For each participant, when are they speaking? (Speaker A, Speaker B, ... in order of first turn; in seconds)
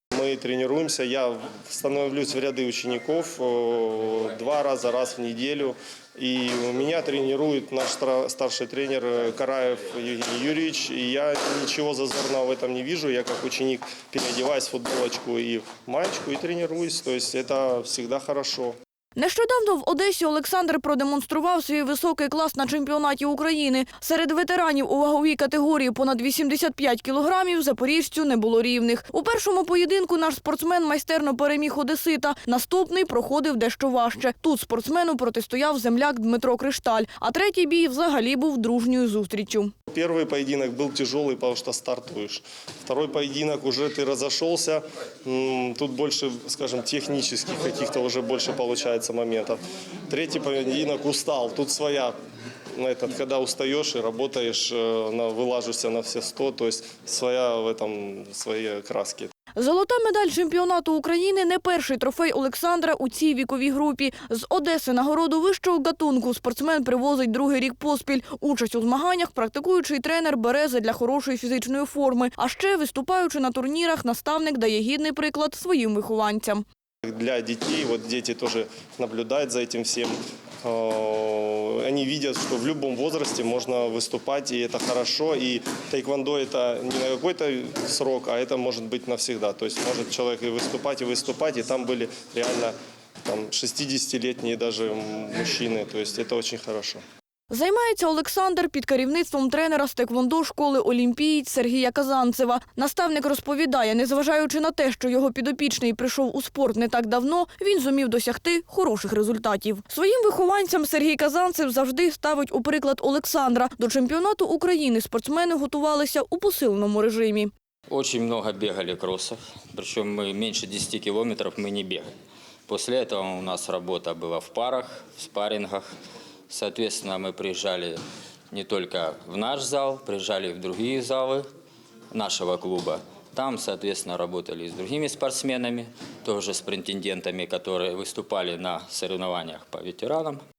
Speaker A: 0.1-18.8, 39.9-52.1, 52.8-59.3, 77.0-92.7, 93.2-97.0
Speaker B: 19.2-39.7, 59.6-76.7, 97.5-117.5
Speaker C: 117.9-122.1, 122.7-125.9, 126.5-128.0, 128.5-131.4, 132.1-140.4